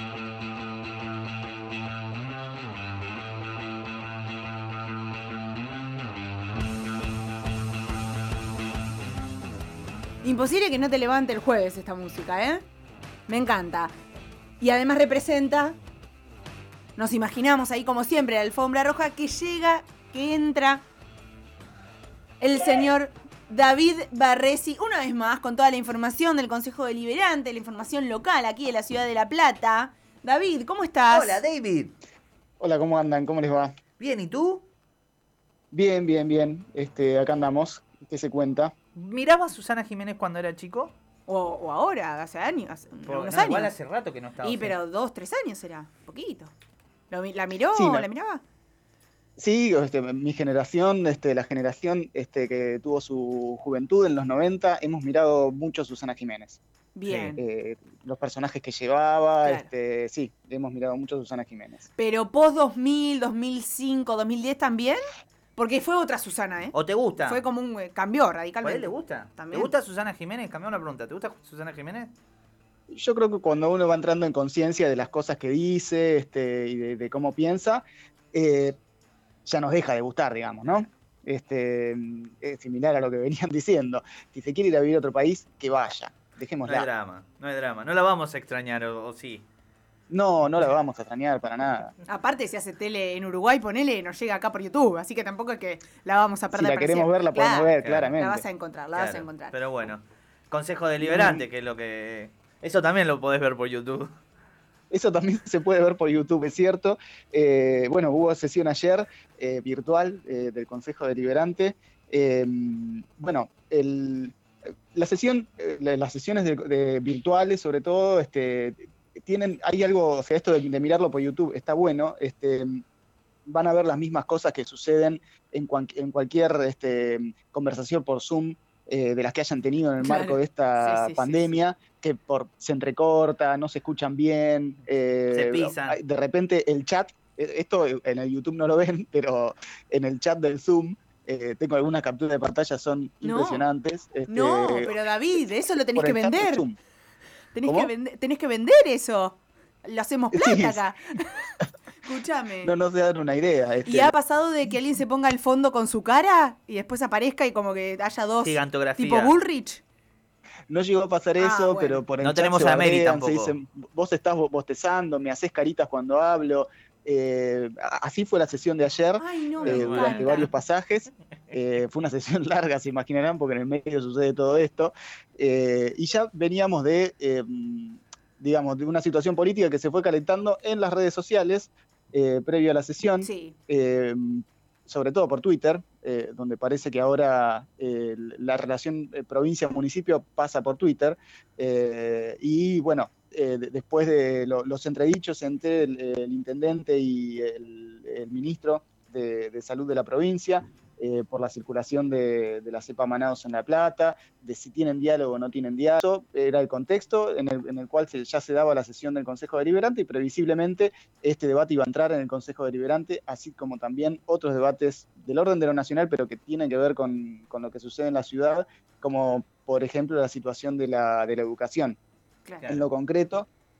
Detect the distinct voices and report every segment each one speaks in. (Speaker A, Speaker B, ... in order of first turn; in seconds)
Speaker A: 10.2-12.6, 13.3-13.9, 14.6-15.8, 17.0-20.8, 22.4-31.4, 41.3-43.7, 44.4-46.5, 47.1-48.4, 56.9-57.4, 62.0-65.0, 65.5-69.7, 92.1-99.6, 130.0-131.5, 143.2-143.7, 144.3-146.6, 147.5-151.5, 152.0-152.7, 153.8-159.8, 161.4-162.0, 169.2-170.5, 183.2-183.5
Speaker B: 31.1-31.9, 34.0-34.7, 38.9-40.9, 43.1-44.8, 57.0-57.4, 66.7-67.4, 68.6-72.1, 86.6-89.5, 97.8-98.2, 98.9-104.1, 135.3-136.0, 158.4-159.3, 162.2-163.5, 169.6-170.5
Speaker C: 32.6-33.8, 35.7-38.7, 47.7-48.1, 49.4-56.6, 57.4-61.9, 72.9-78.8, 79.4-86.9, 90.1-91.9, 96.5-98.4, 101.0-101.4, 104.9-114.3, 114.9-122.8, 123.5-144.9, 145.9-146.8, 147.7-147.9, 150.3-150.8, 152.6-154.1, 160.7-222.0, 222.7-223.5